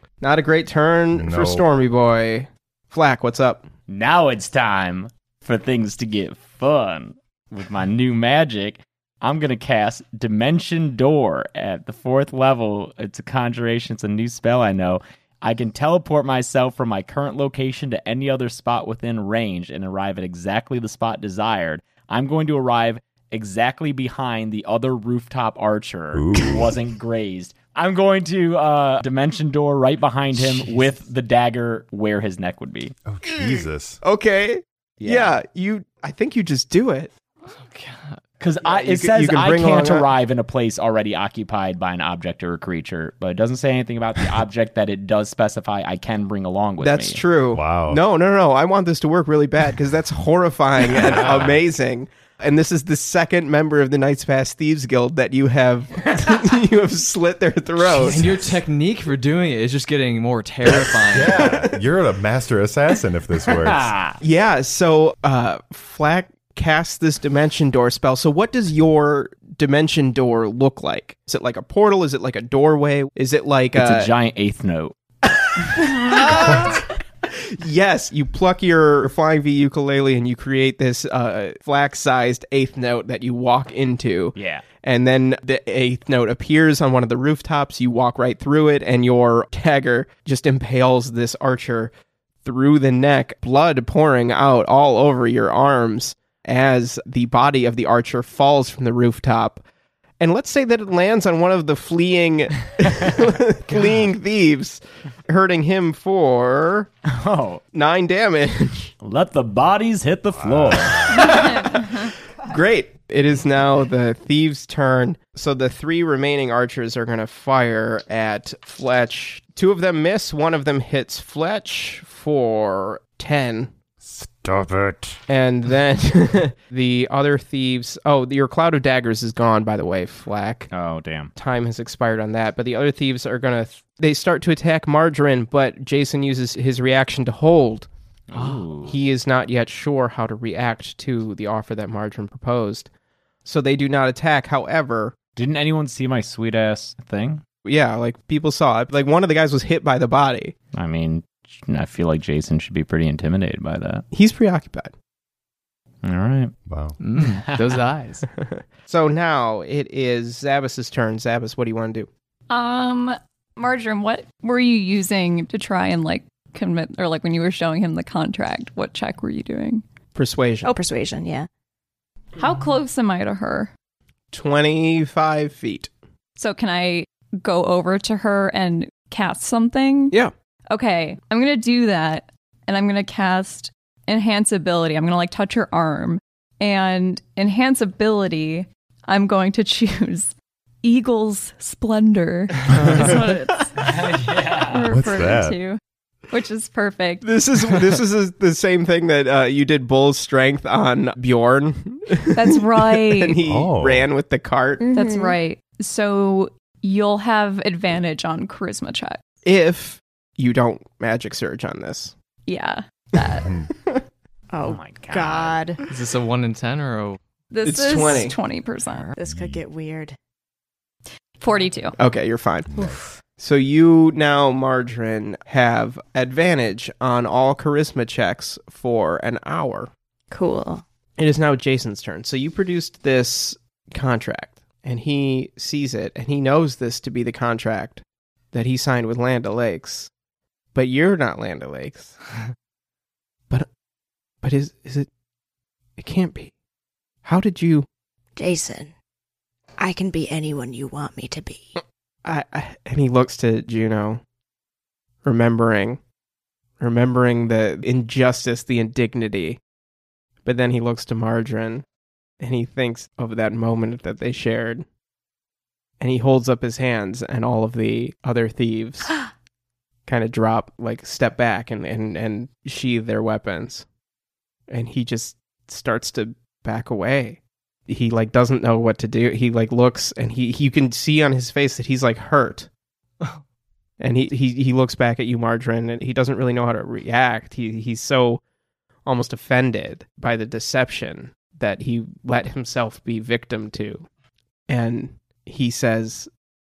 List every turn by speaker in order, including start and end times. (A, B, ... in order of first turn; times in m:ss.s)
0:00.2-0:03.7 A
0:01.1-0:01.6 B
0:03.9-0:32.9 C
0:26.1-0:26.8 B
0:33.0-0:34.0 B
0:33.2-0:37.1 A
0:35.0-0:35.4 C
0:37.5-0:38.2 D
0:38.4-0:47.2 C
0:38.6-0:40.1 A
0:46.8-0:58.5 A
0:47.5-0:48.0 B
0:51.0-0:51.6 B
0:57.8-1:01.5 D
1:01.1-1:03.9 B
1:01.1-1:01.8 A
1:03.5-1:04.2 C
1:04.2-1:14.1 A
1:13.7-1:14.9 C
1:15.6-1:31.9 A
1:24.3-1:24.6 C
1:32.4-1:39.6 A
1:40.2-1:46.9 A
1:47.0-1:47.6 C
1:47.7-1:48.9 A
1:49.0-1:51.1 C
1:50.3-1:51.5 B
1:51.1-2:03.7 A
1:51.2-1:52.0 E
2:04.0-2:05.2 B
2:05.3-2:10.7 A
2:10.7-2:11.3 C
2:11.3-2:17.9 A
2:18.3-2:19.0 C
2:18.5-2:22.9 A
2:23.4-2:25.1 A
2:25.4-2:27.4 C
2:27.6-2:30.6 A
2:30.7-2:34.0 C
2:34.1-2:34.9 A
2:36.0-2:36.5 C
2:36.7-2:37.0 B
2:37.0-2:38.2 D
2:37.2-2:37.6 C
2:38.4-2:42.1 A
2:42.5-2:49.8 E
2:50.1-2:50.7 A
2:50.6-2:51.5 F
2:52.4-2:53.7 E
2:54.3-2:55.9 A
2:56.4-3:00.1 E
3:00.7-3:10.3 E
3:10.8-3:17.2 E
3:13.8-3:14.9 C
3:14.9-3:15.6 B
3:17.2-3:24.8 A
3:22.3-3:23.4 E
3:23.4-3:24.1 B
3:24.8-3:25.3 F
3:24.9-3:29.2 E
3:29.4-3:32.1 A
3:32.4-3:33.5 E
3:34.5-3:35.8 F
3:34.6-3:35.6 C
3:35.8-3:37.2 D
3:37.5-3:39.1 E
3:37.6-3:38.4 A
3:39.1-3:40.1 F
3:39.2-3:39.6 B
3:41.4-3:42.0 E
3:42.0-3:49.9 A
3:42.8-3:43.2 F
3:50.3-3:50.8 F
3:51.2-4:00.1 A
4:00.7-4:02.2 A
4:04.4-4:05.1 A
4:06.0-4:06.5 A
4:07.2-4:07.9 A
4:08.4-4:08.9 F
4:09.8-4:11.7 F
4:12.2-4:14.2 A
4:15.2-4:16.0 A
4:16.8-4:19.6 A
4:20.4-4:21.8 A
4:22.4-4:24.8 A
4:26.0-4:29.2 A
4:30.0-4:33.8 A
4:34.7-4:42.7 A
4:44.0-4:48.4 A
4:49.0-4:54.1 A
4:54.7-4:56.3 A